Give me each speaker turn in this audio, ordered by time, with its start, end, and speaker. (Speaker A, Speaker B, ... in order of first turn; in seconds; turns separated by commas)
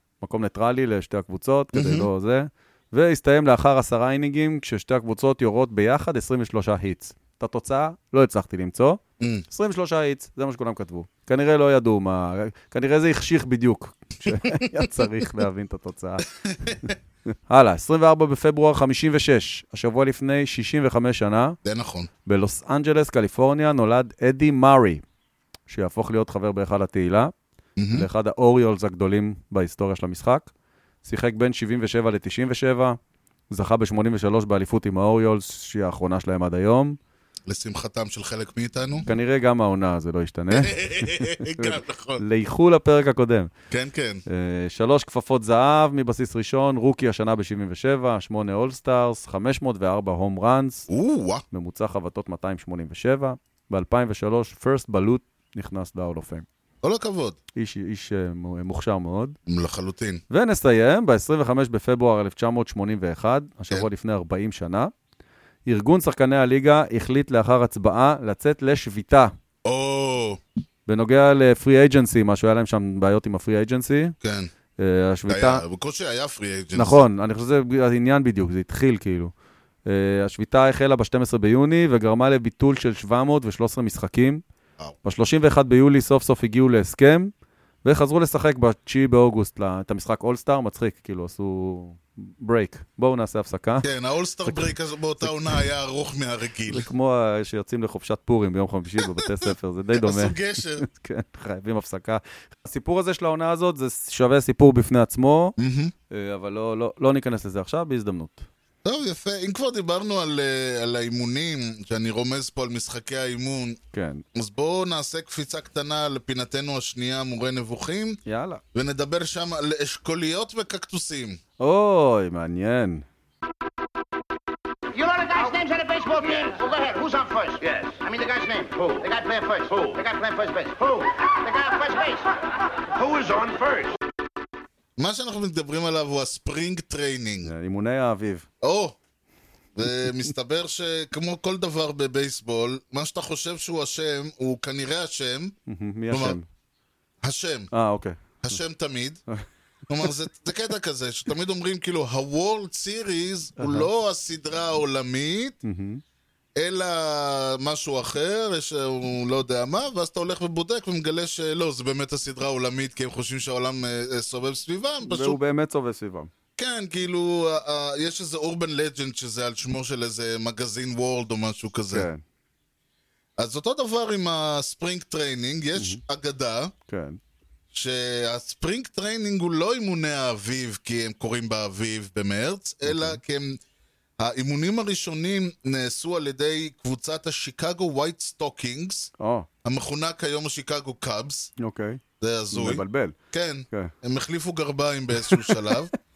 Speaker A: 0.2-16.9, Speaker B: 1.7-2.1, Speaker B: 16.5-16.9, Speaker A: 17.5-21.6, Speaker B: 21.6-22.1, Speaker A: 22.2-25.0, Speaker A: 25.7-27.3, Speaker B: 27.8-28.1, Speaker A: 27.9-30.5, Speaker A: 31.0-33.0, Speaker A: 33.5-37.0, Speaker B: 37.5-39.1, Speaker A: 39.0-43.5, Speaker B: 40.5-42.2, Speaker B: 43.7-44.2, Speaker A: 44.3-50.9, Speaker B: 50.9-51.4, Speaker A: 51.5-56.5, Speaker B: 56.8-57.4, Speaker A: 57.5-59.3, Speaker B: 59.5-60.2, Speaker A: 60.3-64.9, Speaker A: 65.7-69.3, Speaker B: 69.6-70.4, Speaker A: 70.8-74.1, Speaker B: 74.2-74.5, Speaker A: 74.8-75.6, Speaker B: 75.3-77.0, Speaker A: 76.7-79.3, Speaker A: 79.8-84.4, Speaker A: 85.0-87.3, Speaker A: 87.8-93.8, Speaker B: 93.8-96.8, Speaker A: 95.2-95.6, Speaker A: 96.7-105.5, Speaker B: 99.0-100.9, Speaker B: 105.6-105.9, Speaker A: 106.1-108.5, Speaker B: 108.8-113.8, Speaker A: 113.9-114.2, Speaker B: 114.3-118.2, Speaker A: 118.2-118.6, Speaker B: 118.7-121.4, Speaker A: 121.6-123.0, Speaker C: 124.9-132.4, Speaker C: 132.9-134.0, Speaker B: 135.0-137.5, Speaker A: 137.4-138.4, Speaker B: 138.6-138.9, Speaker B: 139.8-145.5, Speaker A: 145.7-146.4, Speaker B: 146.1-146.4, Speaker B: 147.2-147.7, Speaker A: 147.7-148.6, Speaker B: 148.4-149.2, Speaker B: 149.9-155.6, Speaker A: 153.6-153.9, Speaker A: 155.6-156.0, Speaker B: 156.6-165.4, Speaker A: 165.0-166.3, Speaker B: 166.6-172.1, Speaker A: 171.9-172.2, Speaker B: 173.4-176.7, Speaker A: 176.9-177.2, Speaker B: 177.7-183.6, Speaker A: 182.8-183.2, Speaker B: 184.2-189.1, Speaker A: 189.2-189.5, Speaker B: 189.6-191.5, Speaker A: 191.6-192.0, Speaker B: 192.2-195.9, Speaker A: 192.5-193.2, Speaker A: 195.2-195.8